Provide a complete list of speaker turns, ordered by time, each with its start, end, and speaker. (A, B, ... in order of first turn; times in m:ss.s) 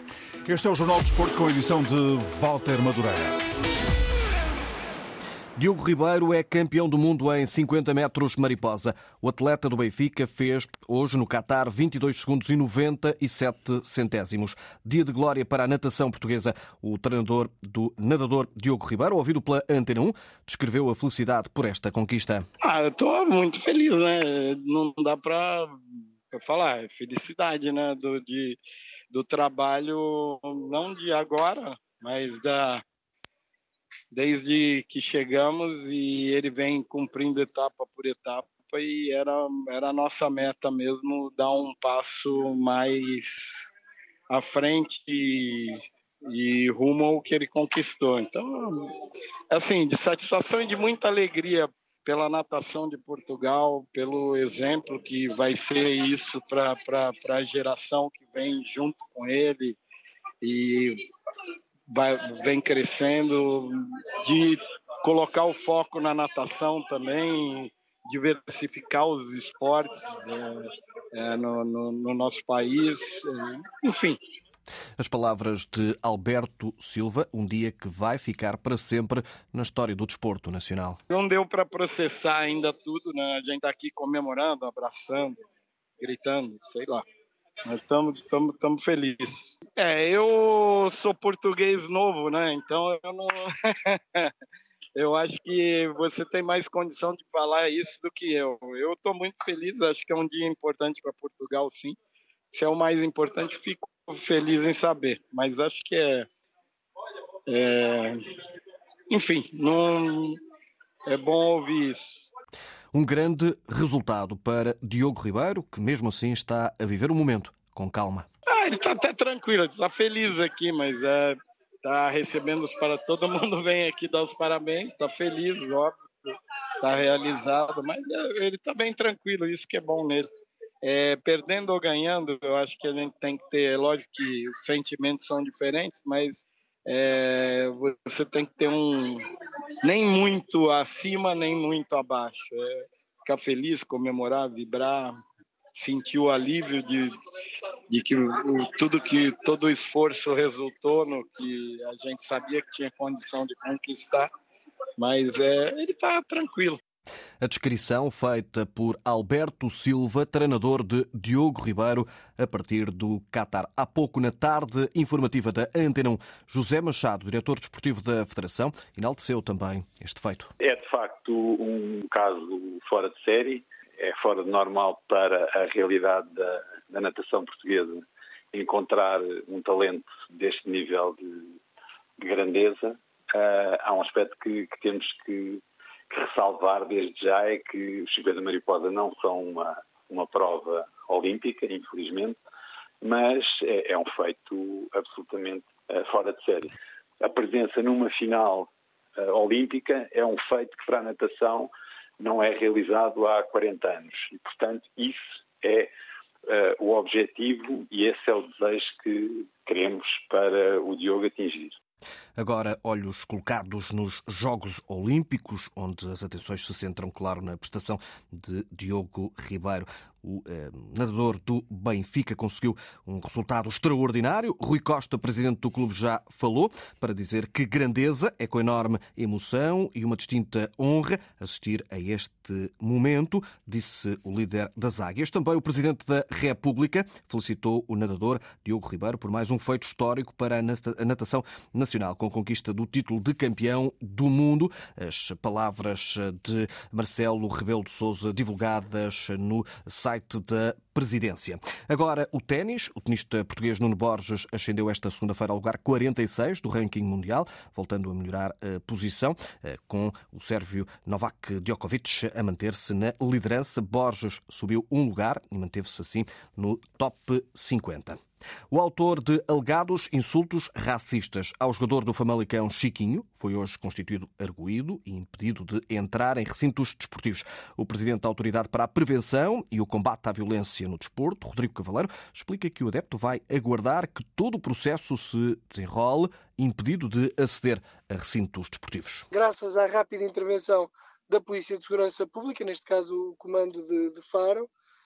0:00.5-0:03.4 A
0:05.6-0:22.4 B
0:22.6-0:25.7 C
0:26.3-0:28.6 C
0:29.1-0:32.8 C
0:34.1-0:43.7 C
0:44.3-0:48.9 C
0:49.5-0:59.8 C
1:00.4-1:01.0 C
1:01.9-1:14.2 C
1:15.0-1:21.0 B
1:21.1-1:25.4 C
1:26.0-1:27.0 C
1:27.6-1:34.3 C
1:35.0-1:42.0 C
1:42.5-1:46.3 C
1:47.5-1:48.2 C
1:49.1-1:50.4 C
1:51.1-1:52.2 C
1:52.9-1:58.3 B
1:58.5-2:06.3 C
2:06.8-2:10.3 C
2:10.8-2:19.2 C
2:19.8-2:25.1 C
2:25.7-2:27.1 C
2:27.9-2:34.3 C
2:35.0-2:36.8 C
2:37.4-2:50.5 B
2:50.6-3:01.3 D
3:02.2-3:12.4 D
3:13.0-3:25.9 D
3:26.5-3:31.8 D
3:32.4-4:28.2 B
4:28.7-4:49.3 B
4:49.3-4:54.7 E